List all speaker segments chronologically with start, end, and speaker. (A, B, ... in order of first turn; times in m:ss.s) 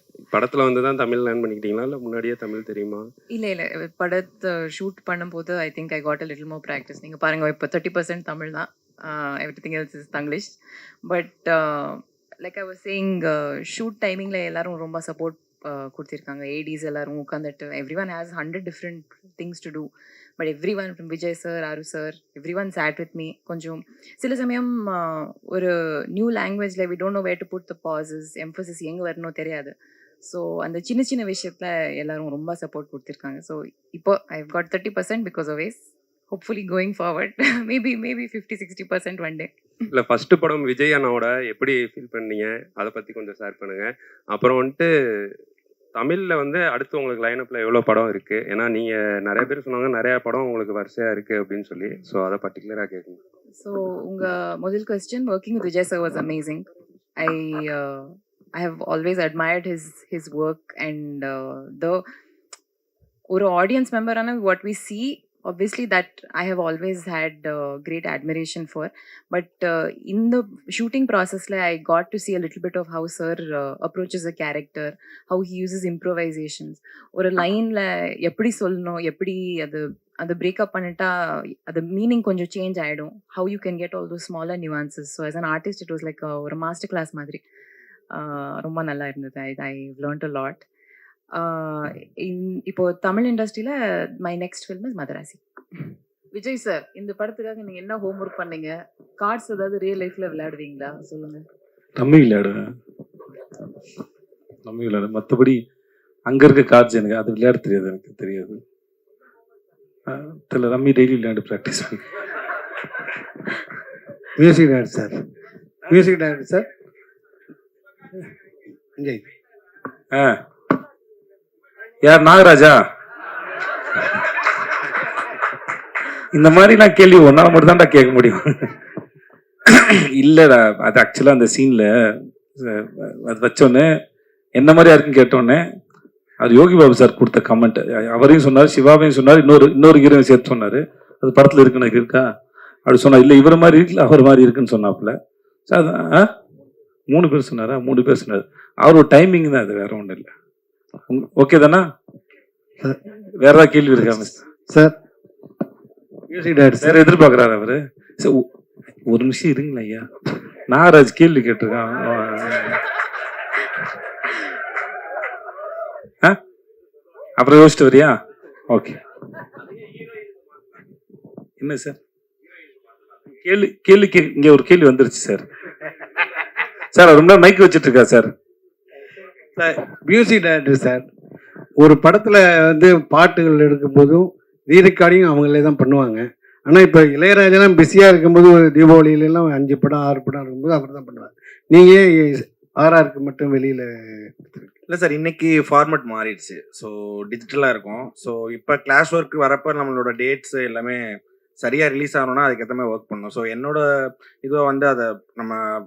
0:00.3-0:03.0 A
0:03.3-0:39.5 B
0:39.9-0:44.9 A
0:46.0-0:53.2 A
0:53.6-1:02.0 B
1:03.3-1:27.4 B
1:28.1-1:30.6 B
1:31.3-1:41.4 B
1:42.0-1:42.7 C
1:44.6-1:45.6 C
1:46.2-1:48.6 C
1:50.1-1:52.0 C
1:54.4-1:55.2 D
1:55.9-1:56.7 D
1:59.0-1:59.2 D
2:00.1-2:00.4 C
2:02.0-2:02.8 C
2:06.3-2:08.8 C
2:09.6-2:13.9 C
2:14.6-2:15.6 C
2:16.4-2:22.2 C
2:22.8-2:25.2 C
2:25.7-2:26.3 C
2:27.1-2:30.3 C
2:31.1-2:31.8 C
2:33.4-2:34.4 C
2:34.0-2:35.0 D
2:36.3-2:37.0 D
2:36.8-2:38.4 C
2:39.1-2:40.1 C
2:40.7-2:42.8 C
2:47.4-2:48.2 C
2:48.7-2:49.0 C
2:51.6-2:52.0 C
2:53.4-2:55.4 C
2:56.9-2:58.3 C
2:59.6-3:01.0 D
3:01.8-3:14.7 D
3:14.9-3:21.0 E
3:21.6-3:23.8 E
3:24.4-3:25.6 E